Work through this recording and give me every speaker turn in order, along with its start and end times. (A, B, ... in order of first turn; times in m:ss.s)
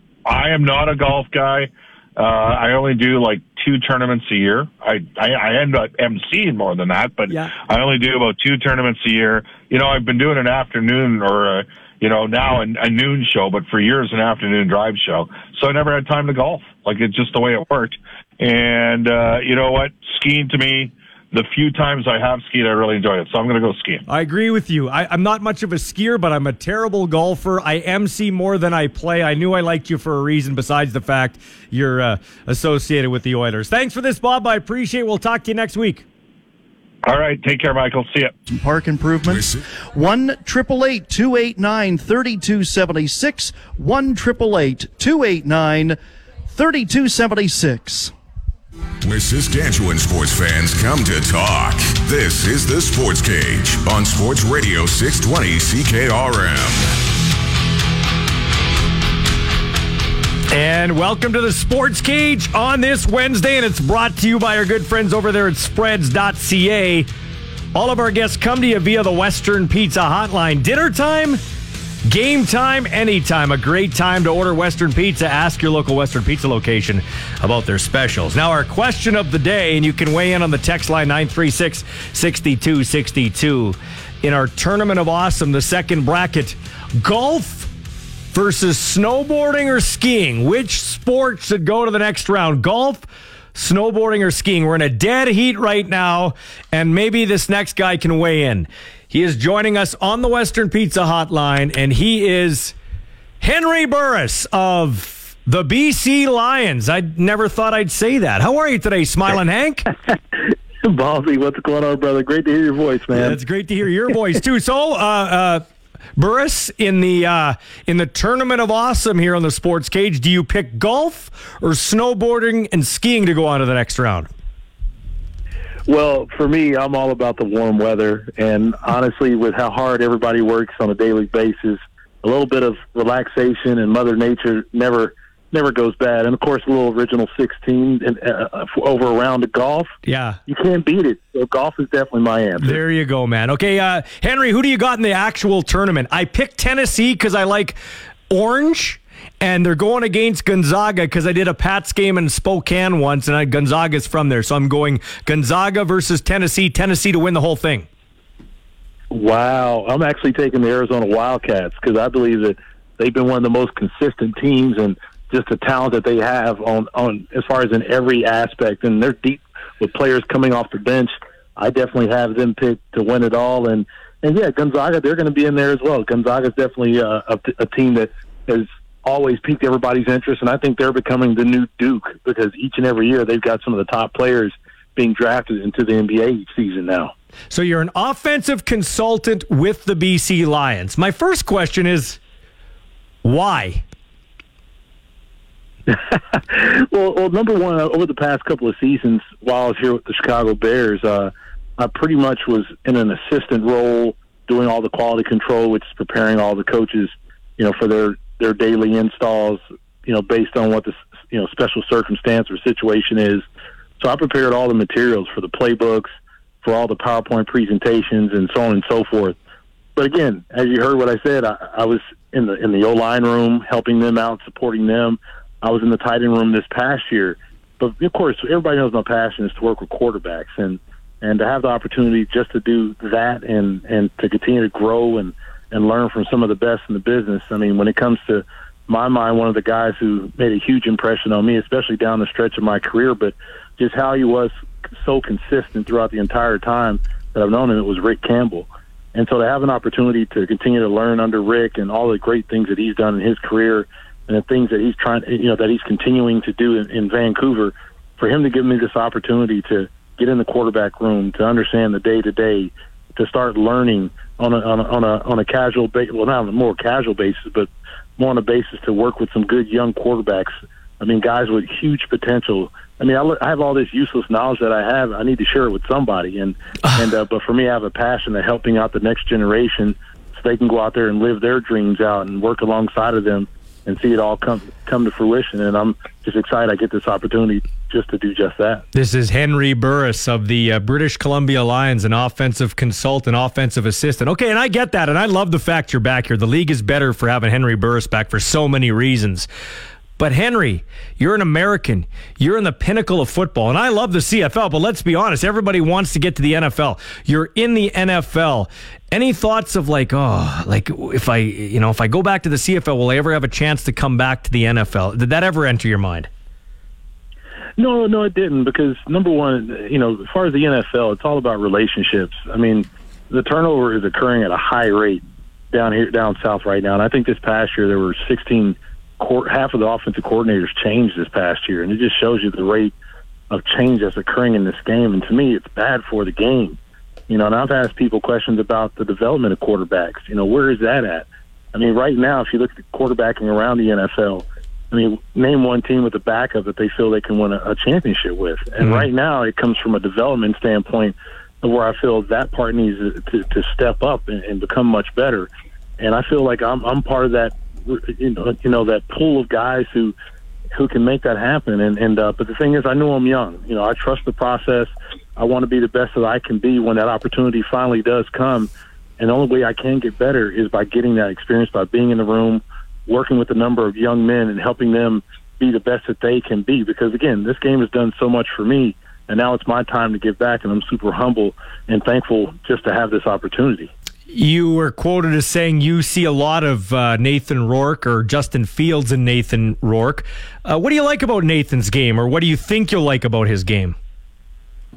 0:00.3-0:24.0 A
0:07.3-0:07.6 B
0:24.1-0:36.0 B
0:37.1-0:38.3 A
0:38.5-0:46.0 C
0:39.3-0:39.6 D
0:46.5-0:48.1 C
0:49.0-0:56.9 D
1:00.5-1:07.1 B
1:07.7-1:11.4 B
1:12.0-1:27.7 B
1:28.3-1:42.7 B
1:43.4-1:49.9 B
1:50.8-1:53.4 E
1:53.1-1:55.6 B
1:56.2-2:04.3 B
2:05.9-2:19.9 E
2:20.0-2:20.4 B
2:20.4-2:22.8 E
2:22.6-2:27.8 B
2:28.3-2:37.8 B
2:39.1-3:07.1 E
3:07.5-3:12.2 B
3:13.2-3:13.8 B
3:15.9-3:33.4 E
3:34.0-3:36.1 E
3:36.6-3:39.3 E
3:40.0-4:48.8 E
4:48.9-4:59.5 B
5:00.2-5:16.3 B
5:17.8-5:32.9 E
5:33.5-5:36.8 E
5:37.3-6:00.1 E
5:48.8-5:49.1 B
6:00.7-6:23.9 E
6:24.3-6:34.0 B